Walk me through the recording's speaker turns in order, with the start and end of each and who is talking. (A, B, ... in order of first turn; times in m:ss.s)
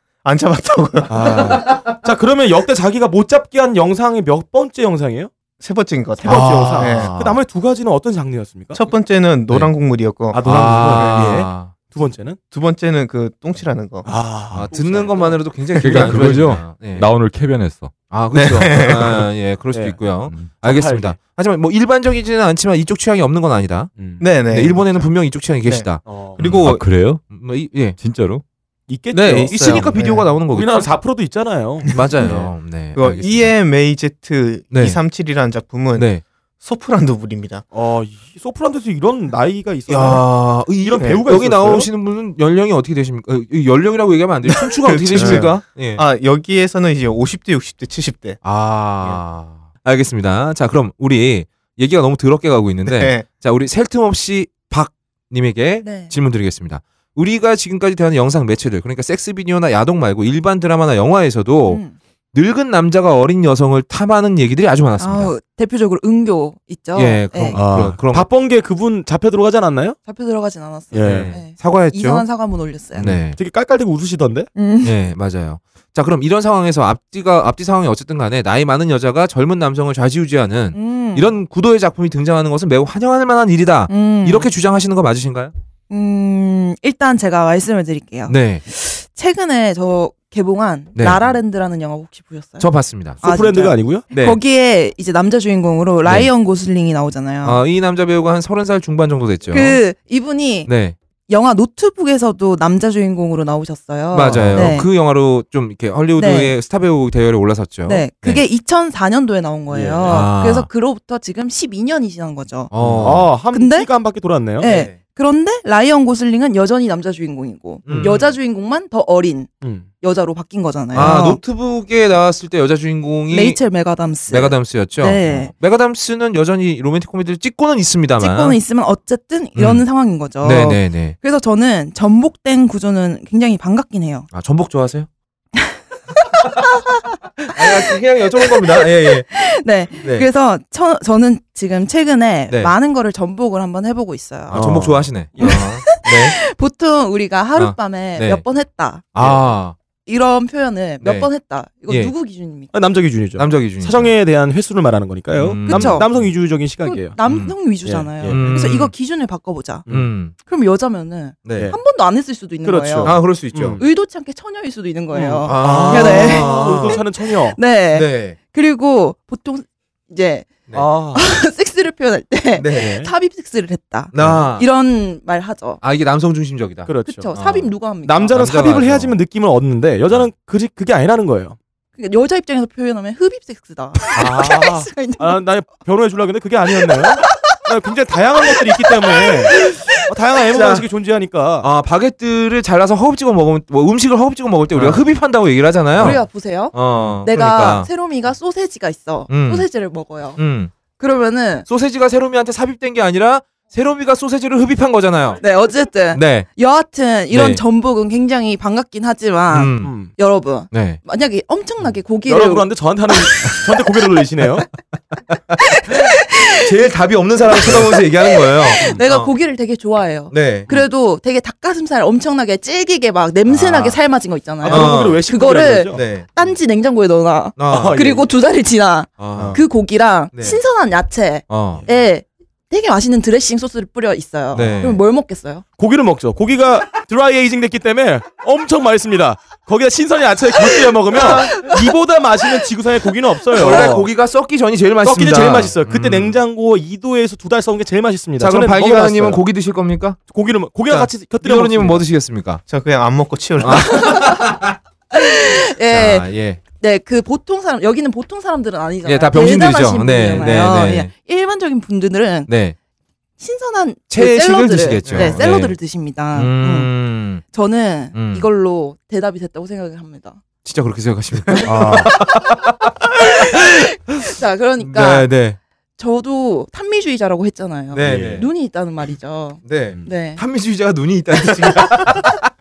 0:00.2-0:01.6 A
0:01.1-0:05.3 B
0:05.6-0:07.1 A
0:06.2-0:08.8 B
0:06.2-0:07.4 C
0:08.7-0:11.2 A
0:10.3-0:12.4 B
0:10.4-0:11.7 C
0:12.5-0:14.2 A
0:14.0-0:16.4 B
0:14.5-0:17.1 C
0:15.7-0:17.9 D
0:18.1-0:23.9 C
0:18.3-0:19.2 A
0:19.7-0:20.0 B
0:20.2-0:20.6 D
0:20.6-0:21.2 B
0:24.0-0:24.2 B
0:24.2-0:25.1 A
0:24.5-0:28.0 C
0:26.0-0:26.4 B
0:26.4-0:27.2 D
0:28.0-0:28.4 D
0:28.9-0:32.5 B
0:29.1-0:30.9 C
0:29.5-0:30.3 A
0:31.9-0:33.5 C
0:32.0-0:37.6 A
0:34.7-0:35.0 C
0:35.9-0:36.2 C
0:37.7-0:41.9 B
0:39.9-0:46.0 C
0:44.5-0:48.4 A
0:45.2-0:45.4 B
0:48.4-1:01.8 C
0:52.8-0:53.2 A
0:55.8-0:56.1 E
1:01.6-1:01.9 E
1:02.3-1:05.3 C
1:05.0-1:07.6 E
1:06.9-1:08.3 C
1:07.5-1:10.0 B
1:10.0-1:13.1 E
1:10.9-1:11.3 B
1:11.0-1:12.2 C
1:12.9-1:13.4 C
1:13.0-1:14.5 B
1:14.6-1:14.9 E
1:14.8-1:25.5 C
1:20.7-1:21.3 E
1:23.9-1:24.5 E
1:25.9-1:32.7 E
1:28.3-1:28.6 C
1:31.0-1:31.3 C
1:32.6-1:33.2 C
1:33.2-1:37.6 E
1:33.2-1:34.4 B
1:36.0-1:36.3 C
1:37.4-1:39.8 C
1:39.5-1:40.7 E
1:40.6-1:41.0 C
1:41.3-1:44.9 E
1:44.1-1:48.4 C
1:44.3-1:44.8 B
1:46.2-1:46.5 E
1:47.8-1:53.9 E
1:49.7-1:50.2 B
1:50.0-1:50.7 C
1:52.7-1:53.3 C
1:52.8-1:54.7 B
1:54.6-2:01.4 E
1:54.6-1:55.0 C
1:57.8-1:58.3 C
1:59.6-1:59.9 B
2:00.9-2:03.6 C
2:03.3-2:05.5 E
2:04.3-2:08.6 C
2:08.2-2:14.3 E
2:09.6-2:09.8 C
2:10.4-2:11.1 C
2:14.3-2:15.1 C
2:15.6-2:17.0 E
2:17.5-2:19.2 C
2:17.6-2:17.9 E
2:18.5-2:24.7 E
2:19.9-2:20.3 C
2:22.5-2:22.7 C
2:24.5-2:26.4 C
2:24.5-2:25.6 B
2:25.4-2:29.1 E
2:27.6-2:28.4 C
2:29.1-2:29.7 C
2:30.0-2:32.7 E
2:31.0-2:31.3 C
2:32.7-2:37.2 B
2:33.4-2:34.1 C
2:35.3-2:36.2 C
2:35.6-2:36.1 E
2:36.8-2:43.2 E
2:37.2-2:37.6 C
2:37.8-2:38.7 B
2:38.2-2:38.9 C
2:39.9-2:40.3 C
2:41.4-2:41.7 C
2:42.6-2:43.8 B
2:43.0-2:43.8 C
2:43.8-2:50.5 E
2:45.1-2:47.6 B
2:45.4-2:47.0 C
2:47.9-2:48.4 C
2:50.7-2:51.3 B
2:51.1-2:55.8 E
2:52.6-2:52.9 C
2:52.7-2:53.1 B
2:54.1-2:54.6 C
2:55.8-2:57.7 C
2:56.8-2:57.3 B
2:57.0-2:58.4 E
2:58.0-3:01.6 B
2:58.3-2:59.1 C
3:02.0-3:05.4 E
3:04.1-3:11.7 B
3:06.7-3:07.6 E
3:08.5-3:09.7 E
3:10.5-3:10.8 C
3:11.6-3:17.9 C
3:14.7-3:15.0 B
3:16.0-3:20.4 E
3:19.3-3:19.7 C
3:20.4-3:20.7 C
3:21.0-3:21.7 E
3:21.7-3:25.4 C
3:25.4-3:32.7 E
3:26.1-3:26.4 C
3:27.3-3:27.6 C
3:29.5-3:30.0 C
3:29.8-3:30.1 B
3:30.7-3:31.0 C
3:32.2-3:34.7 B
3:35.5-3:36.0 C
3:35.8-3:36.7 E
3:36.6-3:39.3 C
3:37.5-3:55.6 E
3:40.3-3:40.7 C
3:43.5-3:44.0 C
3:44.6-3:46.0 B
3:44.7-3:45.2 C
3:45.9-3:46.3 C
3:47.6-3:48.0 C
3:47.7-3:48.3 B
3:49.2-3:49.6 C
3:49.3-3:49.6 B
3:50.3-3:50.6 C
3:51.5-3:51.8 C
3:54.5-3:55.0 C
3:55.8-4:04.1 B
4:03.5-4:06.4 C
4:05.0-4:09.4 B
4:08.4-4:10.2 C
4:10.3-4:12.0 B
4:10.9-4:12.6 C
4:12.7-4:14.0 A
4:13.6-4:14.8 C
4:13.7-4:14.4 E
4:15.1-4:22.5 E
4:15.9-4:16.6 C
4:19.0-4:21.1 C
4:20.3-4:20.6 B
4:22.5-4:22.7 C
4:23.4-4:26.9 E
4:24.1-4:25.8 C
4:25.0-4:25.4 B
4:26.3-4:27.4 C
4:27.4-4:30.4 E
4:28.1-4:28.4 C
4:30.6-4:33.8 C
4:31.6-4:32.4 E
4:31.6-4:32.1 B
4:33.1-4:35.3 E
4:34.8-4:35.6 C
4:36.0-4:40.4 E
4:37.9-4:38.5 C
4:38.0-4:38.4 B
4:39.6-4:42.4 C